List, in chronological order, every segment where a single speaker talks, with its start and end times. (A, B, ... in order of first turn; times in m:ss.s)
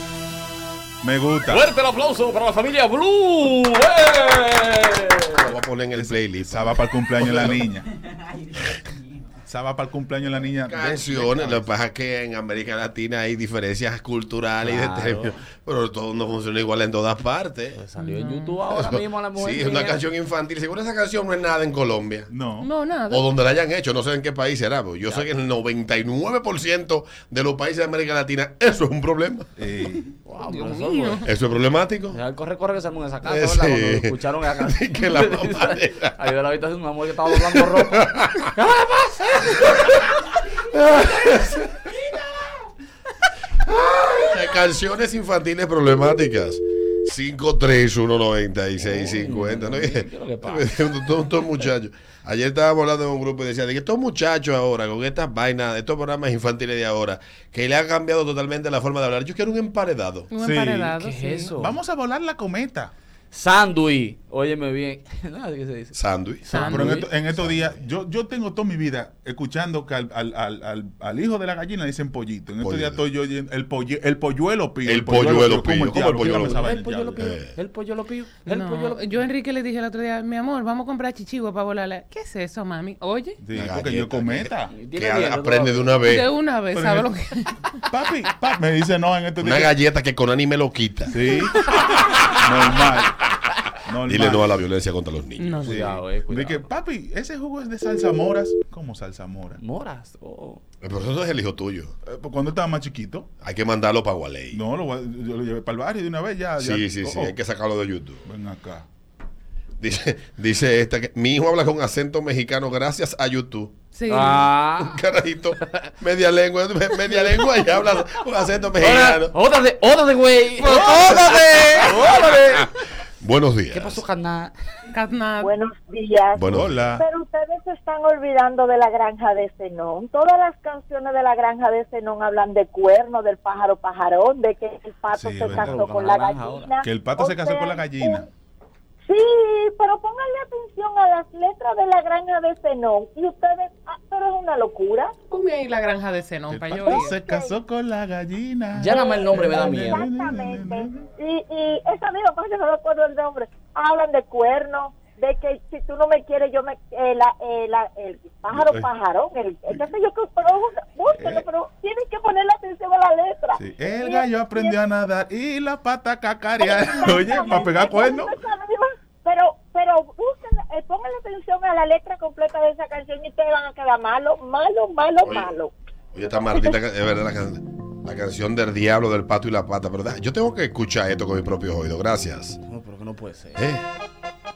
0:01.0-0:01.7 A
0:01.5-0:05.6 B
0:05.4-0:07.6 C
0:05.9-0:07.9 A
0:09.5-0:11.7 A
0:10.7-0:17.8 C
0:14.6-0:15.4 B
0:17.8-0:20.0 B
0:18.0-0:18.6 D
0:18.7-0:22.3 C
0:22.3-0:22.7 A
0:22.6-0:23.3 D
0:23.1-0:29.5 C
0:29.6-0:30.1 A
0:30.2-0:31.2 B
0:30.4-0:31.3 D
0:31.2-0:32.2 C
0:32.1-0:39.7 B
0:33.2-0:36.2 C
0:37.5-0:38.5 C
0:39.7-0:39.9 C
0:40.6-0:41.9 C
0:43.5-1:00.3 C
0:48.8-0:50.7 B
1:00.3-1:01.5 D
1:00.4-1:01.0 A
1:01.0-1:01.8 B
1:01.5-1:02.9 A
1:03.3-1:07.7 B
1:05.9-1:06.7 C
1:06.5-1:06.9 D
1:06.6-1:17.3 A
1:12.6-1:13.0 C
1:14.9-1:17.6 C
1:15.9-1:19.0 B
1:18.5-1:23.4 D
1:23.4-1:24.7 A
1:23.5-1:26.3 C
1:24.7-1:26.0 B
1:26.0-1:27.6 D
1:26.7-1:27.1 A
1:27.9-1:29.7 A
1:29.4-1:32.2 C
1:31.1-1:31.7 A
1:32.3-1:33.2 A
1:33.8-1:34.6 A
1:34.1-1:35.6 C
1:35.4-1:35.9 D
1:35.6-1:36.7 B
1:35.6-1:39.6 A
1:39.6-1:40.6 B
1:40.8-1:41.9 C
1:42.0-1:43.3 A
1:43.4-1:44.6 C
1:44.5-1:47.4 A
1:46.6-1:48.2 C
1:48.2-1:48.9 A
1:49.8-1:53.7 C
1:53.9-1:54.5 D
1:54.1-1:55.0 B
1:54.8-1:59.4 C
1:58.8-2:02.7 B
2:00.6-2:01.8 C
2:03.2-2:04.0 C
2:03.7-2:04.5 B
2:04.9-2:05.6 D
2:05.4-2:18.2 E
2:06.4-2:06.9 C
2:06.5-2:07.1 A
2:15.1-2:15.8 A
2:15.5-2:16.7 B
2:16.8-2:18.3 A
2:19.1-2:25.1 E
2:25.3-2:27.1 D
2:26.5-2:31.0 A
2:26.9-2:27.5 E
2:28.7-2:30.1 B
2:28.9-2:44.8 E
2:38.5-2:38.9 A
2:41.1-2:41.5 A
2:43.6-2:48.4 A
2:46.6-2:55.7 E
2:55.2-2:55.5 C
2:56.1-3:02.6 C
2:56.3-2:56.8 E
3:02.7-3:03.6 B
3:03.6-3:03.8 C